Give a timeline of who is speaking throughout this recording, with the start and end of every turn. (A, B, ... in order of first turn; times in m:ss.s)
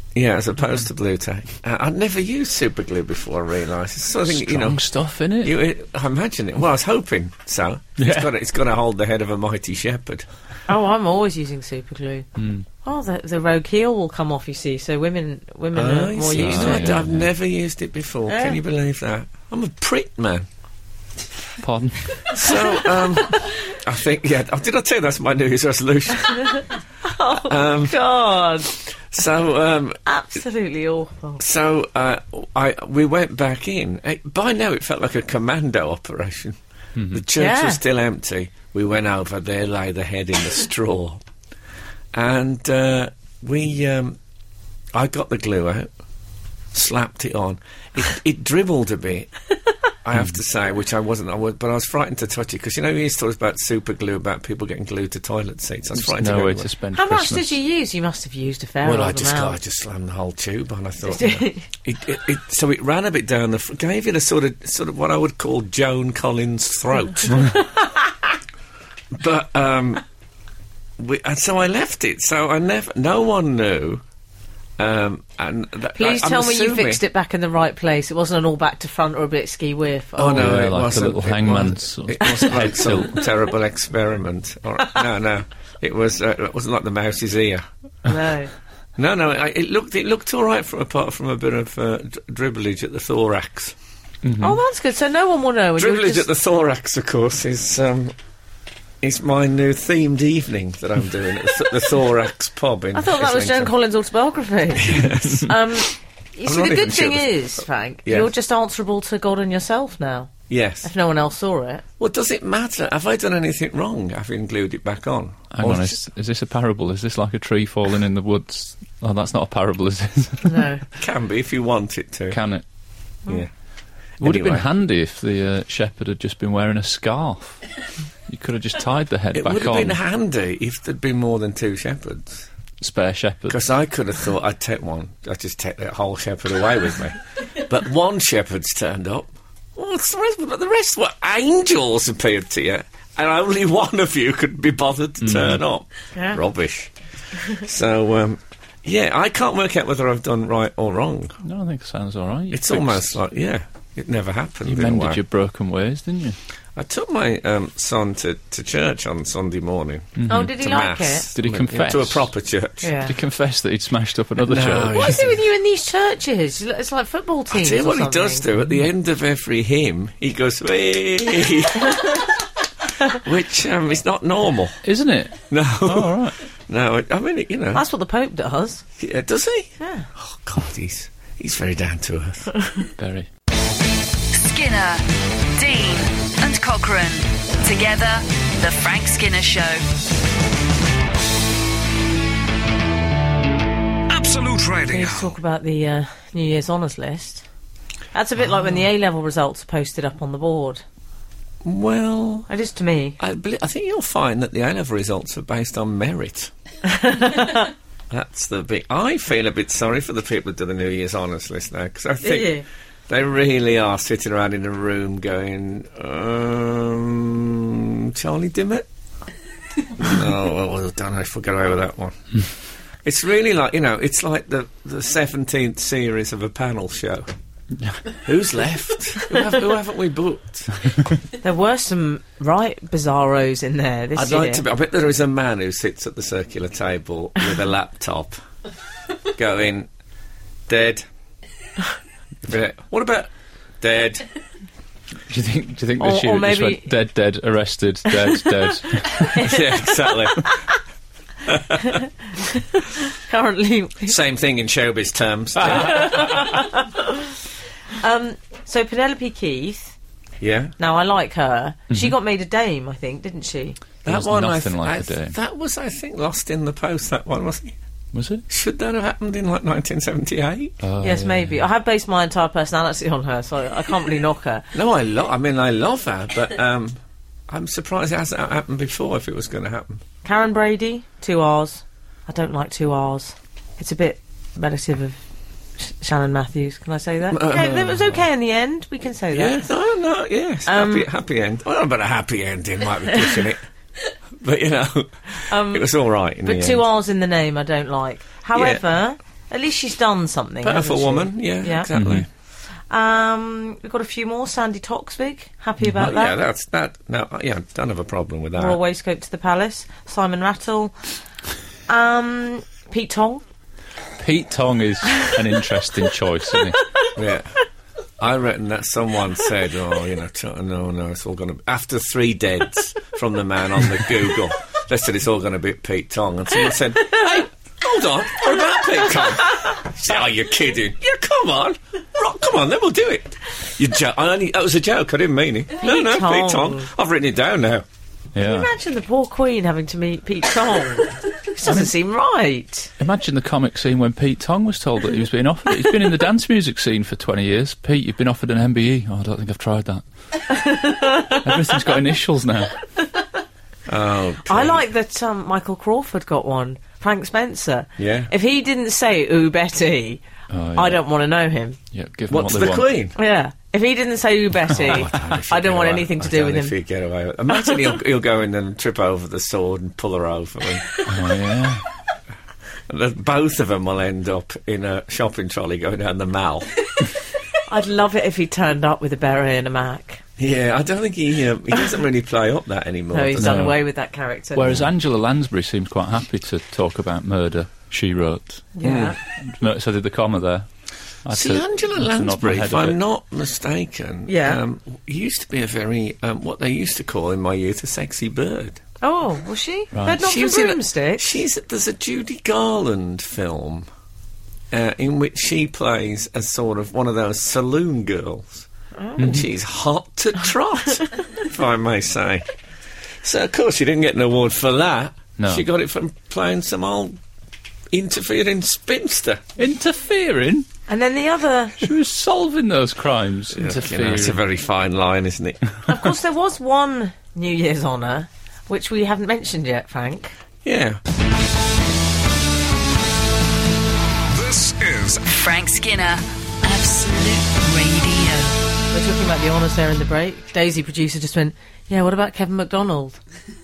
0:00.1-0:04.8 A
0:04.2-0:05.5 B
0:05.4-0:10.2 A
0:08.0-0:08.3 B
0:10.7-0:12.3 C
0:12.4-0:12.6 B
0:12.8-0:17.0 C
0:15.7-0:20.5 A
0:16.3-0:17.3 B
0:18.3-0:18.6 C
0:21.6-0:22.5 B
0:22.3-0:26.6 A
0:26.5-0:28.8 C
0:27.3-0:28.0 A
0:28.9-0:30.0 A
0:30.0-0:31.4 C
0:31.4-0:36.6 A
0:37.0-0:37.3 B
0:37.1-0:41.2 A
0:37.4-0:37.8 C
0:42.1-0:44.2 A
0:44.9-0:45.9 A
0:46.7-0:49.3 A
0:50.0-0:56.7 A
0:56.0-0:57.5 B
0:56.9-0:59.6 C
0:58.8-1:07.6 A
1:01.0-1:01.7 C
1:09.1-1:10.0 A
1:11.0-1:14.0 A
1:14.8-1:17.0 A
1:15.9-1:20.5 C
1:20.2-1:27.6 A
1:20.4-1:23.3 B
1:28.0-1:28.5 C
1:29.0-1:33.8 A
1:34.2-1:34.6 B
1:34.4-1:36.3 C
1:35.8-1:38.1 A
1:39.0-1:43.7 A
1:42.9-1:50.3 C
1:44.8-1:45.8 A
1:46.4-1:47.4 A
1:48.0-1:48.3 A
1:50.5-1:50.9 A
1:50.8-1:51.8 C
1:52.0-1:56.0 A
1:55.5-2:00.7 B
2:00.4-2:00.8 C
2:01.0-2:02.4 A
2:02.3-2:02.6 B
2:04.2-2:04.6 A
2:04.2-2:07.6 B
2:08.3-2:10.0 B
2:09.3-2:12.5 A
2:12.8-2:13.6 B
2:13.5-2:31.4 A
2:25.2-2:25.6 B
2:26.1-2:26.4 C
2:31.4-2:33.2 B
2:32.5-2:35.2 A
2:34.6-2:36.4 B
2:36.8-2:43.0 A
2:40.2-2:40.5 B
2:40.3-2:41.3 C
2:41.3-2:42.3 B
2:42.8-2:43.1 C
2:43.0-2:45.2 B
2:44.4-2:45.4 A
2:44.9-2:48.4 C
2:47.5-2:52.4 A
2:53.0-2:54.8 A
2:54.8-2:56.4 B
2:55.5-2:57.8 A
2:57.7-2:58.8 C
2:59.0-3:02.8 A
2:59.8-3:00.1 C
3:03.0-3:03.3 B
3:04.3-3:09.8 D
3:14.1-3:15.4 E
3:14.9-3:17.4 C
3:18.1-3:20.8 C
3:21.6-3:22.5 A
3:22.5-3:23.2 C
3:23.2-3:26.5 A
3:26.8-3:27.7 C
3:28.1-3:38.9 A
3:32.2-3:32.6 C
3:40.0-3:42.4 A
3:43.0-3:47.3 A
3:48.2-3:50.8 A
3:51.4-3:54.6 C
3:54.1-3:58.4 A
3:59.3-3:59.9 A
4:00.7-4:01.0 A
4:02.4-4:03.3 A
4:03.8-4:04.2 A
4:05.3-4:09.4 B
4:06.0-4:06.9 C
4:08.3-4:10.7 C
4:09.4-4:10.5 A
4:11.4-4:12.0 A
4:11.7-4:14.1 C
4:14.0-4:16.4 A
4:15.7-4:17.3 C
4:18.0-4:19.9 C
4:20.4-4:20.7 A
4:20.8-4:23.8 C
4:24.0-4:27.8 A
4:24.0-4:25.4 B
4:28.1-4:28.4 B
4:28.5-4:30.8 A
4:30.8-4:31.6 B
4:31.0-4:34.7 C
4:34.7-4:37.0 A
4:37.5-4:40.0 A
4:40.2-4:45.2 C
4:45.8-4:49.6 C
4:47.3-4:48.2 A
4:49.3-4:53.6 A
4:50.6-4:51.1 C
4:54.4-4:56.8 A
4:55.5-4:55.9 C
4:56.4-5:01.9 C
4:58.5-4:58.8 A
5:00.6-5:02.3 A
5:01.9-5:02.2 B
5:02.9-5:06.4 C
5:05.8-5:06.1 B
5:06.0-5:08.8 A
5:08.6-5:10.9 C
5:11.9-5:13.4 C
5:14.2-5:16.9 B
5:17.2-5:17.5 A
5:18.2-5:37.8 A
5:35.8-5:36.9 C
5:38.3-5:38.7 B
5:38.4-5:42.9 C
5:41.6-5:41.9 B
5:43.0-5:50.0 B
5:50.5-5:51.7 C
5:51.4-5:52.8 B
5:53.9-5:54.8 A
5:54.4-6:01.8 C
5:58.0-5:58.3 A
6:00.5-6:01.0 B
6:01.9-6:02.9 B
6:02.3-6:03.2 A
6:03.2-6:06.7 C
6:04.7-6:10.9 A
6:11.0-6:11.8 B
6:12.9-6:17.0 A
6:17.6-6:20.2 C
6:20.4-6:23.7 A
6:23.1-6:24.8 C
6:23.4-6:23.8 B
6:24.5-6:28.7 B
6:28.8-6:29.2 C
6:28.8-6:29.2 A
6:29.4-6:30.7 B
6:31.2-6:33.0 B
6:31.3-6:38.8 A
6:34.3-6:34.6 C
6:39.0-6:41.4 C
6:39.9-6:40.2 B
6:40.1-6:43.9 A
6:44.7-6:48.7 A
6:49.0-6:49.3 C
6:49.2-6:49.4 B
6:49.2-6:52.5 A
6:53.2-6:57.2 A
6:55.4-6:55.6 B
6:57.9-6:59.4 A
6:59.6-7:00.7 B
7:00.9-7:01.8 C
7:01.8-7:04.4 B
7:03.5-7:05.7 A
7:05.8-7:10.3 C
7:10.6-7:11.0 A
7:14.3-7:15.3 E
7:15.3-7:18.5 D
7:18.9-7:23.2 C